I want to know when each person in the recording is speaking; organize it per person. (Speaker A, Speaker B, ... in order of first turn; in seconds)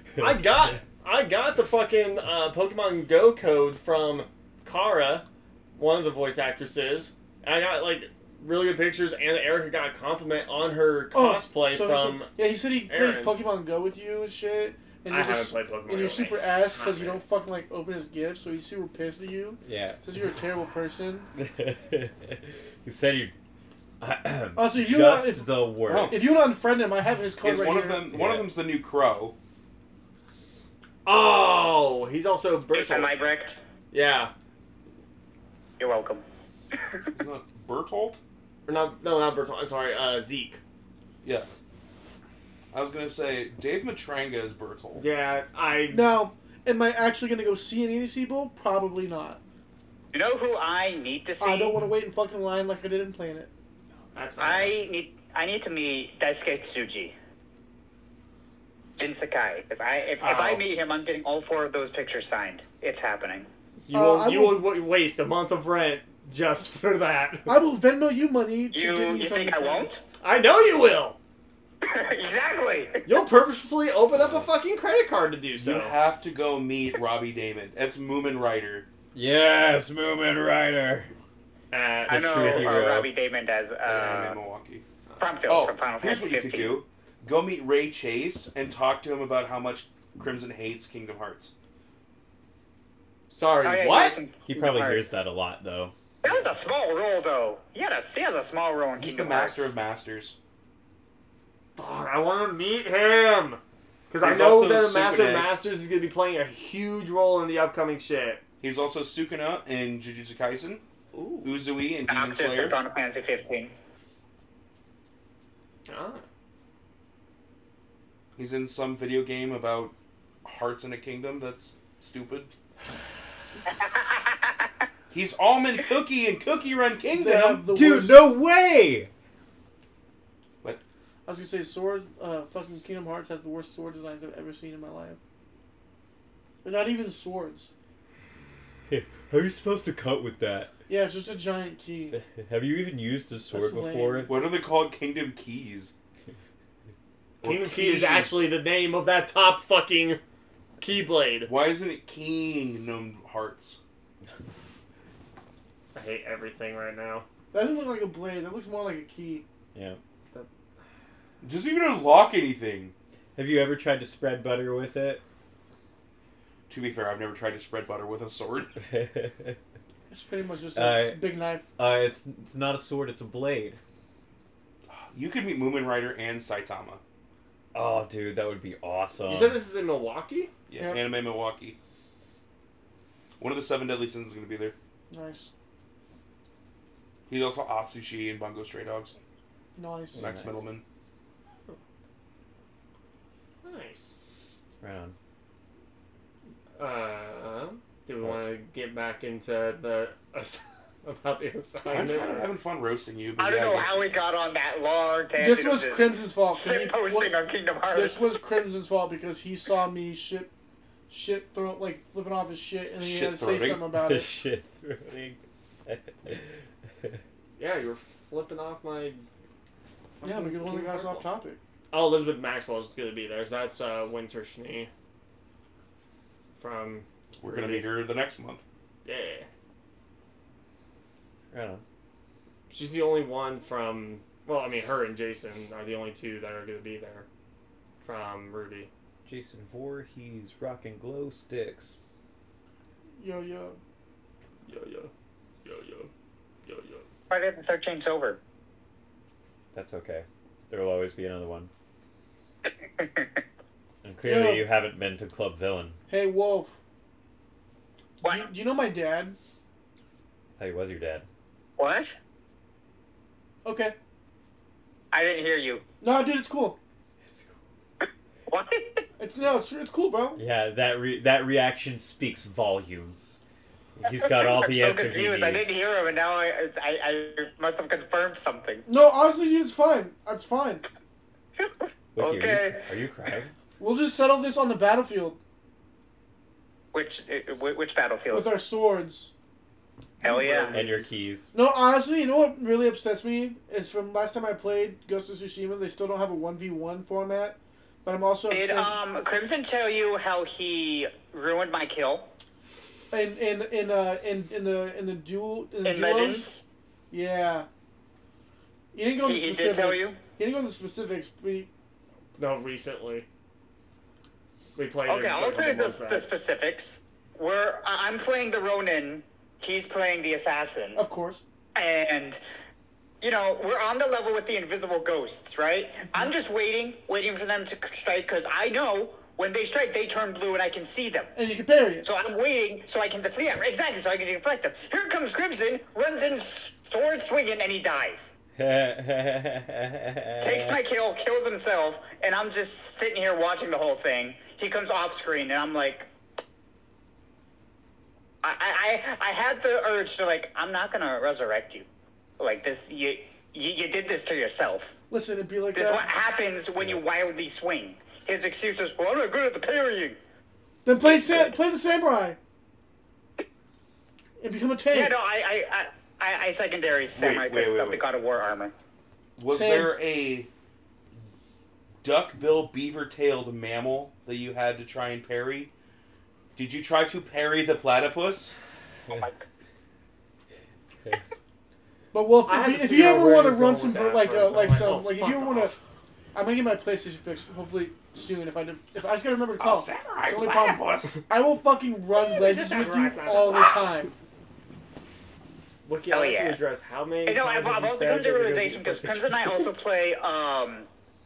Speaker A: 0.2-12.3, 12.9-13.4, 15.1-17.2, 31.1-33.2, 33.9-34.3, 38.7-40.6, 45.0-46.1, 54.1-54.7, 60.2-60.6, 63.9-67.6, 70.2-71.2, 73.1-76.0, 81.7-82.8, 93.3-94.2, 101.8-108.4, 111.1-111.5, 115.9-116.2, 147.4-150.2, 150.8-151.5, 155.9-157.3, 179.3-180.5, 193.6-194.1, 196.8-202.5, 217.6-219.2, 220.2-221.2, 221.9-224.9, 226.6-227.9, 229.1-229.5, 232.7-237.3, 238.0-238.9, 244.7-245.1, 245.6-246.1, 246.7-247.1, 290.2-291.1, 312.4-313.3, 314.8-316.3, 382.5-385.7, 392.2-393.9, 395.9-399.7
Speaker B: 11.1-21.3, 24.6-28.2, 45.9-49.4, 51.4-53.5, 63.9-64.7, 67.5-69.9, 127.1-128.3, 131.3-135.2, 136.6-137.7, 140.9-142.2, 143.5-144.3, 157.5-159.4, 170.1-171.7, 185.1-185.5, 189.8-190.2, 205.4-207.4, 207.9-210.5, 211.1-214.3, 220.2-221.6, 243.2-243.8, 254.2-254.7, 256.1-256.8, 258.2-259.4, 263.6-263.9, 266.0-266.8, 269.2-270.4, 278.9-280.8, 283.8-285.4, 288.3-289.3, 291.5-299.0, 303.1-306.5, 307.1-307.7, 308.9-311.7, 321.0-321.4, 331.4-332.1, 355.1-356.1, 360.9-362.4, 364.4-365.1, 369.5-369.9, 382.1-385.8, 386.4-394.1
Speaker C: 19.6-20.0, 21.4-23.3, 24.0-26.3, 28.1-28.5, 79.1-81.1, 82.1-83.1, 94.5-95.9, 127.7-129.1, 138.9-140.7, 142.1-144.3, 159.8-160.0, 163.4-165.2, 168.8-169.6, 170.8-173.8, 177.7-179.6, 190.1-190.6, 194.8-195.2, 214.0-216.5, 231.5-231.8, 239.3-242.0, 249.7-251.7, 254.0-256.0, 260.6-261.3, 267.2-267.5, 270.4-273.4, 274.0-275.8, 282.1-283.5, 290.7-291.5, 338.6-340.8
Speaker D: 25.9-26.4, 27.4-29.4, 37.1-38.2, 41.2-41.5, 42.7-45.0, 75.6-78.9, 83.8-84.8, 85.5-91.5, 99.0-100.4, 104.2-105.5, 108.6-110.8, 111.4-112.8, 118.4-122.5, 125.1-127.7, 144.3-145.9, 147.4-148.3, 151.4-153.8, 161.4-162.9, 166.7-168.8, 174.9-177.0, 180.7-181.8, 183.4-184.8, 187.3-189.2, 190.2-190.8, 201.9-204.1, 213.0-213.8, 227.4-228.6, 367.1-368.1, 369.4-370.5, 372.0-375.7, 376.6-378.6, 389.6-391.2
Speaker E: 32.7-33.6, 35.8-36.2, 50.1-51.8, 54.4-57.1, 59.0-63.5, 68.7-70.0, 71.8-73.0, 82.1-84.4, 85.2-86.8, 93.6-95.1, 96.2-99.7, 112.1-113.7, 123.7-124.7, 203.4-208.4, 247.3-248.4, 252.7-253.4, 258.2-258.5, 261.8-262.2, 265.1-265.9, 268.0-269.1, 274.1-278.9, 281.6-282.9, 286.9-288.6, 290.2-290.7, 298.5-302.3, 305.8-306.6, 309.2-310.2, 315.1-321.0, 321.8-322.4, 323.2-331.3, 332.0-338.3, 340.4-346.1, 348.4-351.9, 352.4-355.0, 355.7-360.2, 361.0-361.6, 364.9-368.7, 379.1-379.4, 396.1-396.6, 397.3-400.9